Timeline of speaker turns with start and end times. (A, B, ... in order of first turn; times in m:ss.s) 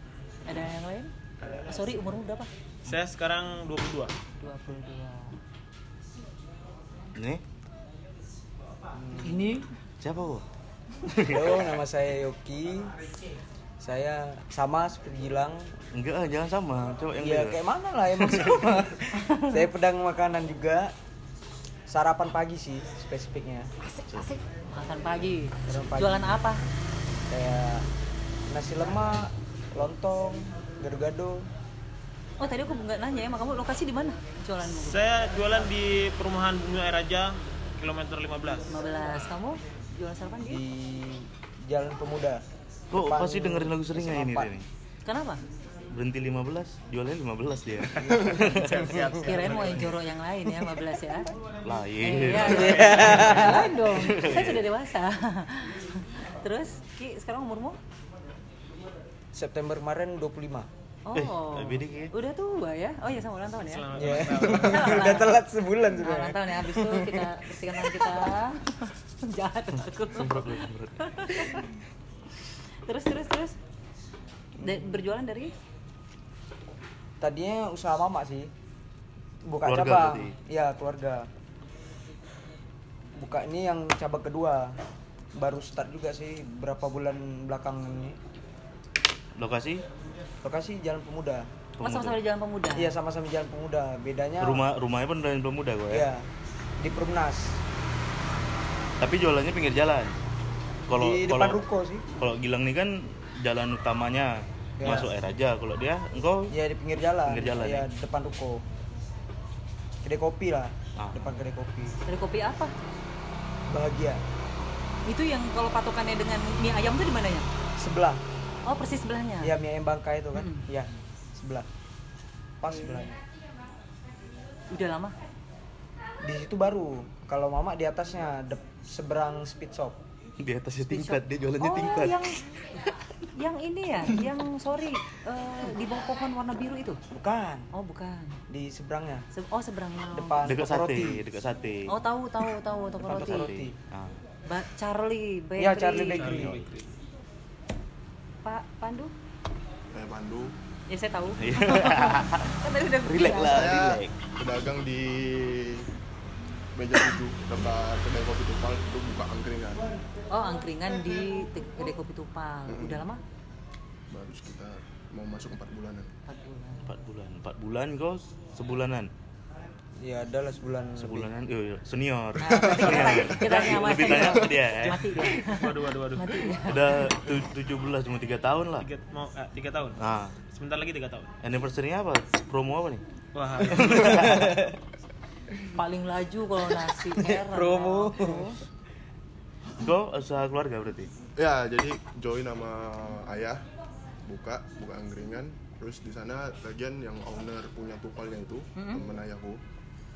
0:00.4-0:01.1 A
0:01.6-0:02.5 A
0:02.8-0:04.1 B
0:04.4-0:05.4 A
0:07.1-0:07.4 C
0:08.9-0:09.4 D
0:09.2-0:09.7 A
0:10.0-0:10.4 C
0:11.0-0:11.7 C
0:11.2-0:12.9 D
0:13.8-0:15.7 D
0:15.9-0:17.6 C
0:17.2-0:20.9 D
0:18.3-0:18.5 C
0:19.1-0:19.6 A
0:21.9-0:23.7 D
0:23.8-0:26.6 A
0:25.7-0:26.4 D
0:27.3-0:27.8 D
0:28.5-0:31.5 D
0:32.4-0:35.0 A
0:34.8-0:38.6 B
0:38.7-0:40.6 A
0:40.5-0:42.4 D
0:42.9-0:44.7 C
0:42.9-0:44.5 D
0:45.0-0:45.4 A
0:45.9-0:49.0 C
0:48.0-0:49.9 B
0:48.1-0:48.4 D
0:49.1-0:51.3 A
0:51.6-0:54.6 C
0:52.0-0:57.8 A
0:52.4-0:53.7 D
0:59.3-1:00.7 D
1:01.0-1:11.6 A
1:01.1-1:02.1 C
1:03.7-1:05.3 B
1:03.9-1:07.3 D
1:07.8-1:08.1 D
1:10.1-1:11.6 C
1:12.8-1:13.5 A
1:14.6-1:15.5 A
1:17.2-1:18.5 D
1:19.4-1:21.3 D
1:19.6-1:20.3 C
1:23.2-1:24.8 D
1:25.4-1:28.2 D
1:29.4-1:29.8 C
1:30.4-1:31.5 D
1:31.8-1:32.2 C
1:31.8-1:32.9 A
1:32.8-1:34.6 D
1:34.4-1:36.1 C
1:35.9-1:36.3 D
1:36.8-1:37.6 D
1:39.0-1:40.1 C
1:40.9-1:41.6 C
1:40.9-1:42.1 D
1:42.2-1:46.5 C
1:44.8-1:45.1 D
1:46.5-1:48.6 D
1:47.2-1:47.9 C
1:50.0-1:52.0 D
1:51.0-1:51.3 C
1:52.0-1:52.7 A
1:53.7-1:54.2 D
1:55.0-1:57.4 A
1:57.8-1:58.2 D
1:58.6-1:59.5 A
1:59.4-2:01.7 D
2:00.3-2:00.6 A
2:02.6-2:03.1 D
2:02.7-2:03.0 A
2:04.7-2:05.2 A
2:06.2-2:10.0 D
2:10.4-2:12.9 C
2:10.9-2:12.5 A
2:13.3-2:17.0 A
2:17.1-2:17.7 D
2:17.7-2:18.4 A
2:18.5-2:19.3 D
2:19.3-2:20.4 A
2:20.1-2:21.2 D
2:20.4-2:21.9 C
2:21.9-2:23.5 A
2:23.0-2:23.7 D
2:23.1-2:24.2 C
2:24.5-2:26.5 A
2:25.6-2:26.6 D
2:26.1-2:26.8 B
2:26.3-2:26.6 C
2:28.4-2:29.1 A
2:29.9-2:30.5 E
2:30.9-2:33.7 A
2:31.4-2:34.2 C
2:33.4-2:35.9 E
2:36.7-2:40.0 E
2:40.3-2:43.2 A
2:42.7-2:43.0 E
2:44.1-2:46.1 E
2:46.2-2:46.9 A
2:46.8-2:49.1 C
2:50.0-2:51.3 D
2:51.0-2:55.3 C
2:52.4-2:57.2 A
2:53.4-2:54.2 B
2:55.2-2:56.4 B
2:56.6-2:58.9 C
2:58.8-3:00.0 B
3:00.0-3:00.4 C
3:00.5-3:01.3 B
3:01.4-3:03.0 C
3:03.3-3:04.5 B
3:03.6-3:04.7 C
3:03.8-3:04.7 D
3:05.7-3:08.6 A
3:07.1-3:08.5 D
3:09.8-3:11.1 C
3:11.4-3:13.6 E
3:14.2-3:19.6 E
3:18.8-3:19.0 A